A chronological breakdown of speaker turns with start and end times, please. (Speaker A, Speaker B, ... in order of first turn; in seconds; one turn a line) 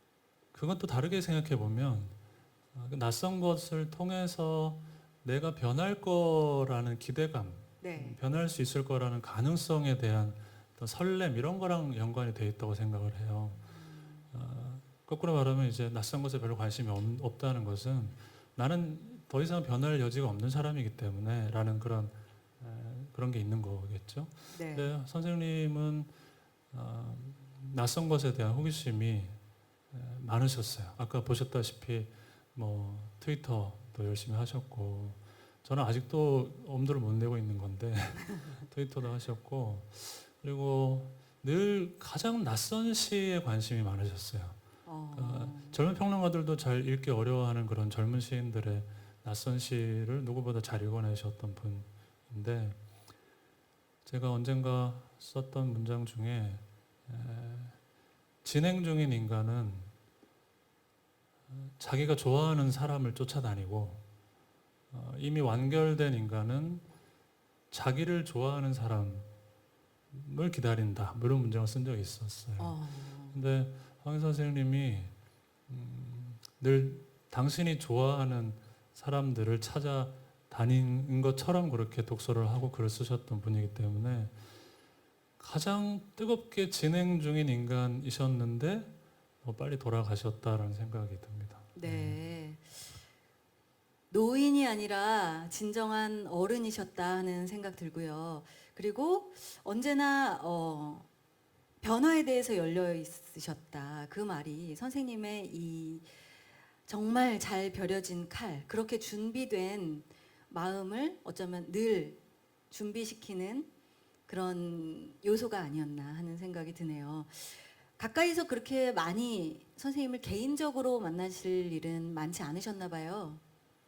Speaker A: 0.5-2.1
Speaker A: 2.7-13.6
Speaker B: 7.8-8.2
Speaker B: 13.6-14.3
Speaker A: 14.3-26.1
Speaker B: 24.5-25.0
Speaker A: 26.7-29.4
Speaker A: 29.9-44.6
Speaker B: 44.8-45.8
Speaker A: 45.1-52.8
Speaker A: 54.0-57.8
Speaker A: 58.4-59.9
Speaker A: 61.5-64.0
Speaker A: 64.9-66.8
Speaker A: 67.7-69.3
Speaker A: 70.1-72.8
Speaker B: 72.6-73.3
Speaker A: 73.3-75.1
Speaker A: 75.7-84.3
Speaker A: 85.4-92.2
Speaker B: 91.7-92.8
Speaker B: 94.1-101.1
Speaker B: 101.8-106.1
Speaker B: 106.8-112.2
Speaker B: 112.7-113.7
Speaker B: 114.3-123.4